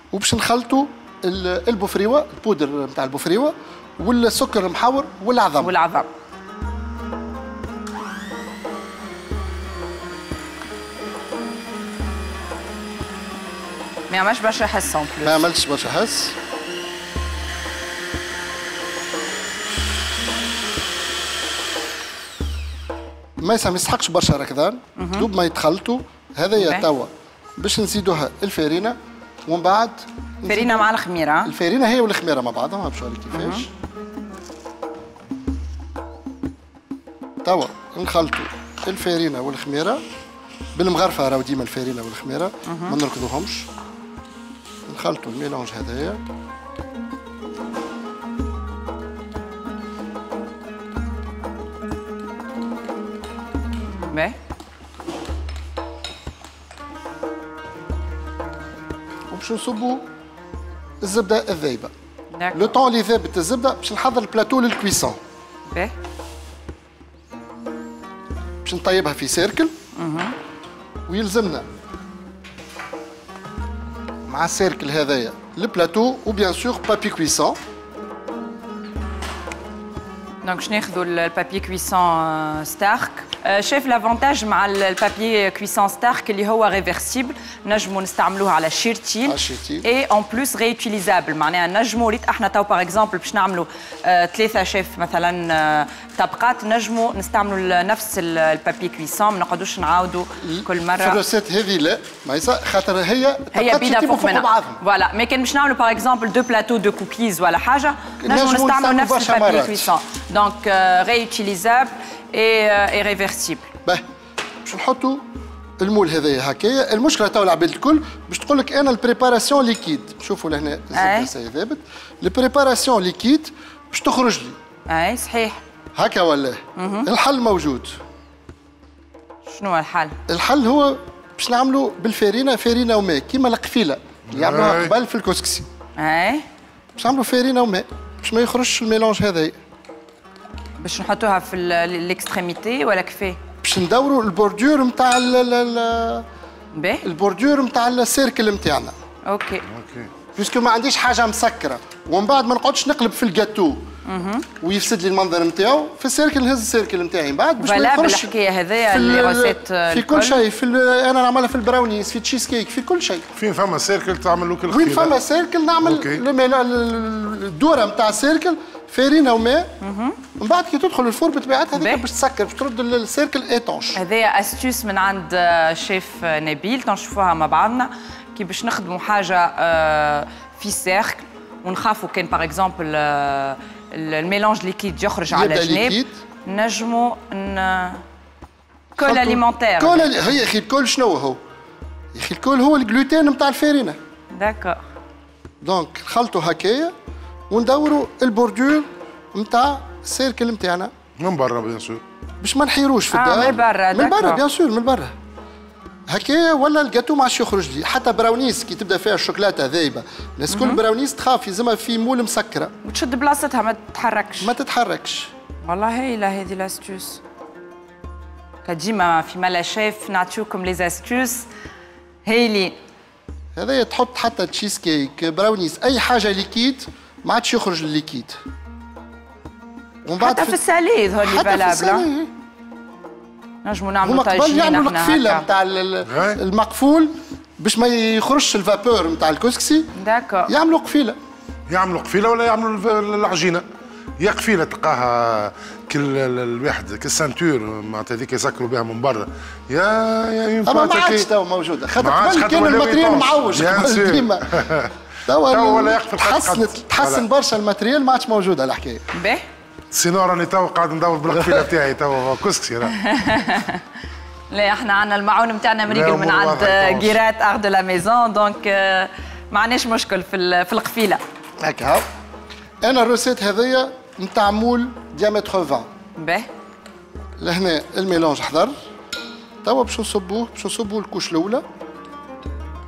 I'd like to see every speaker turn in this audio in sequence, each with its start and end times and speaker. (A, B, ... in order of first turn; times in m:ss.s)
0:00.1-0:05.7 A
0:05.6-0:06.1 B
0:14.1-0:15.5 B
0:15.2-0:16.3 A
0:23.4-0:30.9 A
0:25.0-0:25.3 B
0:26.6-0:26.8 B
0:30.4-0:31.5 B
0:31.4-0:33.7 A
0:33.3-0:33.7 B
0:37.4-0:40.0 A
0:40.7-0:43.7 A
0:42.6-0:43.0 B
0:44.9-0:46.2 A
0:54.1-0:54.3 B
0:59.3-1:00.0 A
1:01.0-1:01.9 A
1:02.4-1:02.7 B
1:02.5-1:05.2 A
1:05.7-1:05.9 B
1:08.6-1:09.7 A
1:09.9-1:10.3 B
1:11.1-1:11.6 A
1:14.3-1:17.6 A
1:20.4-1:41.2 B
1:29.2-1:29.9 A
1:40.4-1:44.8 A
1:43.5-1:53.7 B
1:48.2-1:49.9 A
1:54.6-1:55.2 A
1:55.8-2:04.6 A
2:00.9-2:01.3 B
2:04.9-2:05.6 B
2:05.9-2:08.0 A
2:06.8-2:07.1 B
2:09.5-2:10.2 B
2:10.3-2:15.6 A
2:14.3-2:14.9 C
2:16.0-2:16.4 B
2:17.0-2:19.6 A
2:20.8-2:23.4 B
2:23.6-2:26.2 A
2:26.7-2:27.0 B
2:27.0-2:28.9 A
2:29.3-2:29.6 B
2:29.7-2:30.1 C
2:30.3-2:33.8 A
2:34.0-2:34.5 B
2:34.6-2:38.3 A
2:37.6-2:40.4 B
2:38.9-2:43.3 A
2:43.4-2:45.1 C
2:44.7-2:49.7 A
2:45.8-2:46.2 C
2:49.8-2:50.2 B
2:50.4-2:54.0 A
2:51.8-2:52.0 B
2:53.9-3:08.0 B
3:05.3-3:06.1 A
3:09.0-3:11.4 A
3:09.0-3:10.2 B
3:12.1-3:14.0 A
3:14.3-3:14.8 B
3:15.6-3:16.9 A
3:17.5-3:20.9 A
3:21.2-3:22.0 C
3:22.4-3:25.1 A
3:23.1-3:24.4 B
3:26.1-3:32.7 A
3:30.5-3:30.8 B
3:32.8-3:34.5 B
3:34.4-3:35.3 A
3:35.6-3:37.2 B
3:38.6-3:41.5 B
3:42.2-3:42.7 B
3:43.6-3:48.4 A
3:50.0-3:50.6 A
3:50.2-3:52.1 B
3:51.2-3:52.3 A
3:53.6-3:55.4 B
3:54.0-3:59.9 A
3:56.1-3:56.4 C
4:00.0-4:00.5 B
4:00.5-4:01.2 A
4:01.7-4:03.6 C
4:04.2-4:11.3 C
4:10.6-4:14.5 A
4:12.0-4:14.9 C
4:15.3-4:19.0 A
4:15.5-4:17.2 C
4:19.1-4:19.4 B
4:19.9-4:23.0 C
4:21.4-4:21.6 A
4:22.9-4:23.8 B
4:24.5-4:31.2 B
4:25.9-4:27.2 C
4:31.6-4:32.0 A
4:32.8-4:35.9 A
4:36.2-4:36.5 B
4:37.4-4:38.7 A
4:39.6-4:41.6 A